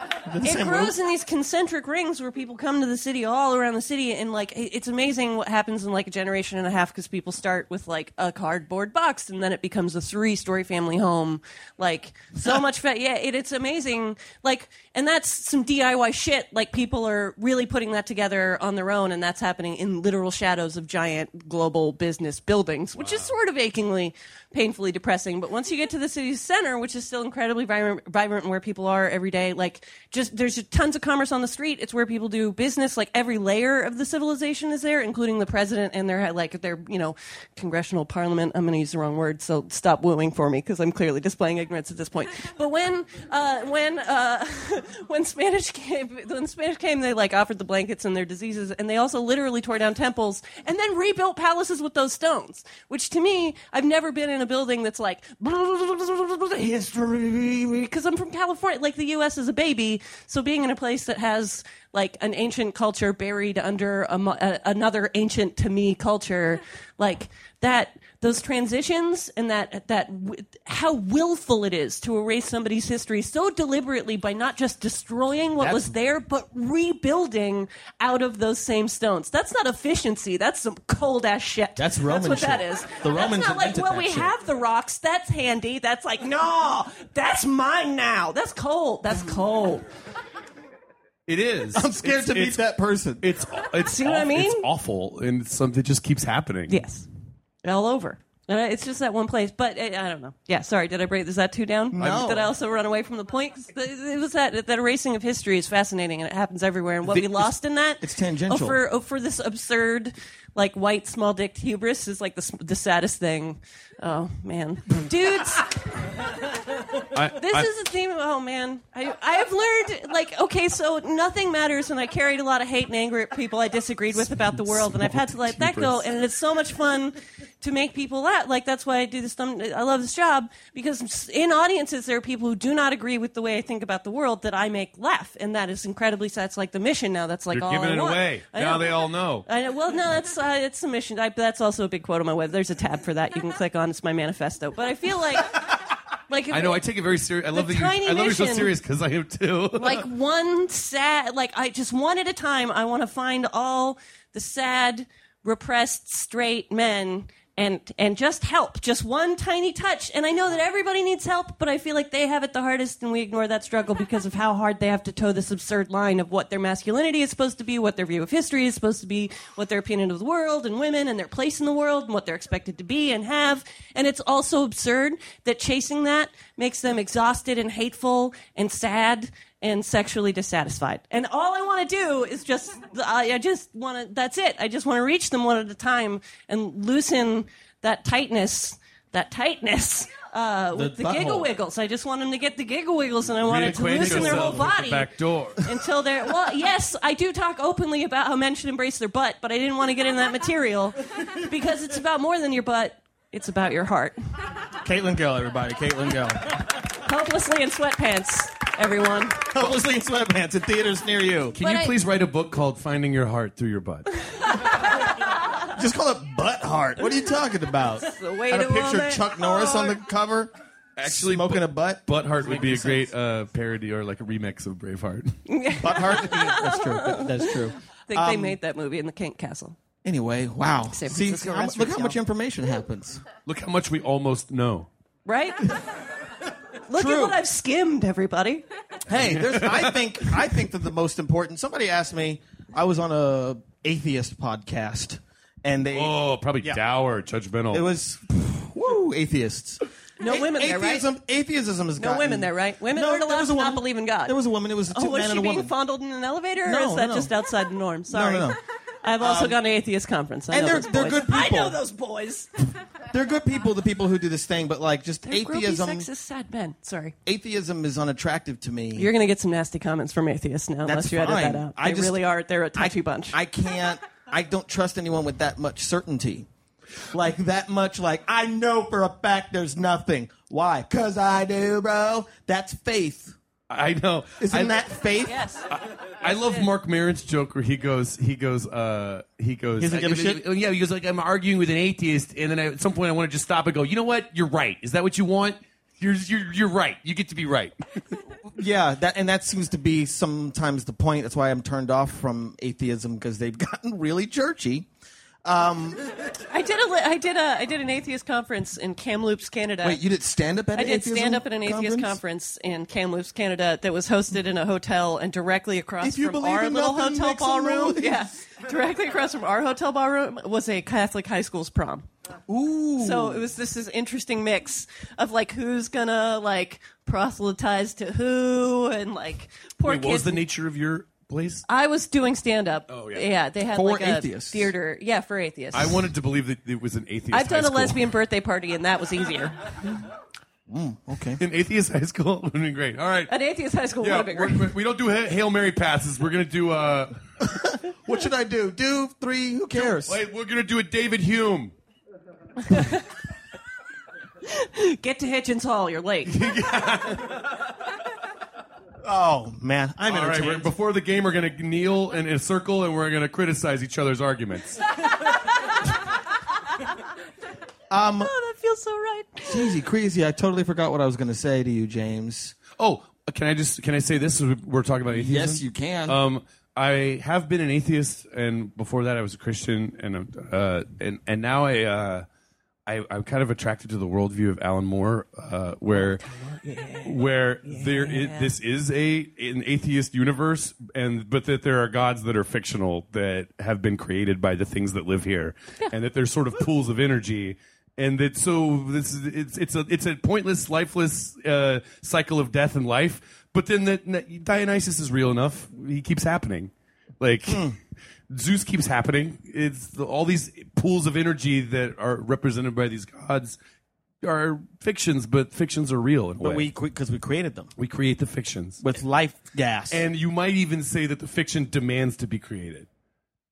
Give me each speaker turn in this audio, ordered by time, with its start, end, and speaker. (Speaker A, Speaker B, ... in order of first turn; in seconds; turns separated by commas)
Speaker A: 0.2-0.9, Speaker B: 0.4-89.8, Speaker C: 23.0-23.3, Speaker A: 75.6-75.9, Speaker A: 81.8-84.3, Speaker C: 91.3-92.6, Speaker A: 91.7-93.2, Speaker C: 93.2-96.8, Speaker B: 93.8-94.7, Speaker B: 96.7-97.1, Speaker B: 97.6-116.5, Speaker A: 101.9-102.5, Speaker C: 102.0-102.3, Speaker A: 108.0-108.8, Speaker C: 117.1-117.7, Speaker B: 117.4-145.6, Speaker C: 124.1-126.0, Speaker C: 137.5-139.4, Speaker C: 145.5-145.8, Speaker B: 146.3-146.8, Speaker C: 146.5-150.0, Speaker B: 147.5-148.7, Speaker B: 149.8-204.2, Speaker A: 190.7-191.5, Speaker C: 193.4-195.7, Speaker A: 193.8-194.7, Speaker A: 204.8-206.7, Speaker B: 206.8-209.4, Speaker A: 209.5-211.6, Speaker C: 211.6-214.5, Speaker B: 211.6-211.9, Speaker A: 215.7-220.5, Speaker B: 218.0-219.9, Speaker C: 221.0-225.4, Speaker A: 221.0-223.1, Speaker B: 225.5-229.8, Speaker A: 225.8-228.6, Speaker A: 230.0-233.2, Speaker B: 230.9-232.2, Speaker C: 233.4-234.9, Speaker B: 235.2-235.8, Speaker B: 236.9-238.7, Speaker A: 236.9-237.4, Speaker A: 239.1-246.8, Speaker C: 239.4-239.9, Speaker C: 245.9-247.8, Speaker A: 247.7-255.7, Speaker B: 250.2-251.1, Speaker B: 252.0-254.3, Speaker B: 254.9-258.5, Speaker A: 256.6-257.3, Speaker A: 258.1-258.6, Speaker B: 259.0-262.5, Speaker A: 259.2-259.6, Speaker A: 260.5-261.8, Speaker A: 263.1-266.1, Speaker B: 265.2-267.1, Speaker A: 267.2-269.1, Speaker B: 268.9-273.4, Speaker A: 270.8-272.2, Speaker A: 272.7-276.5, Speaker A: 277.1-283.4, Speaker C: 283.7-284.8, Speaker A: 284.4-285.4, Speaker B: 285.2-285.7, Speaker C: 285.7-298.2, Speaker B: 286.2-286.7, Speaker A: 289.8-290.4, Speaker A: 298.6-304.9, Speaker A: 305.4-306.0, Speaker B: 306.4-310.0, Speaker A: 309.8-312.2, Speaker B: 310.7-322.1, Speaker A: 316.0-318.3, Speaker A: 322.5-323.4, Speaker B: 323.0-330.4, Speaker C: 329.8-331.6, Speaker B: 331.7-336.1, Speaker C: 332.9-333.3, Speaker A: 333.7-334.7, Speaker C: 335.7-338.1, Speaker B: 337.3-339.6, Speaker A: 340.7-341.4, Speaker C: 341.4-343.3, Speaker B: 343.3-344.7, Speaker C: 344.0-347.2, Speaker A: 347.4-350.2, Speaker C: 349.7-351.7, Speaker B: 352.6-353.1, Speaker B: 354.4-356.3, Speaker C: 356.2-357.7, Speaker A: 359.0-360.7, Speaker C: 360.1-364.8, Speaker A: 367.9-368.3, Speaker B: 368.2-369.7, Speaker A: 369.4-372.6, Speaker C: 372.8-382.3, Speaker A: 375.1-376.2, Speaker C: 382.9-386.3, Speaker B: 385.9-388.5, Speaker C: 387.0-407.8, Speaker A: 407.5-407.7, Speaker C: 408.3-413.6, Speaker C: 414.2-416.7, Speaker A: 416.4-417.7, Speaker C: 417.8-418.8, Speaker A: 418.8-420.0, Speaker C: 419.9-422.9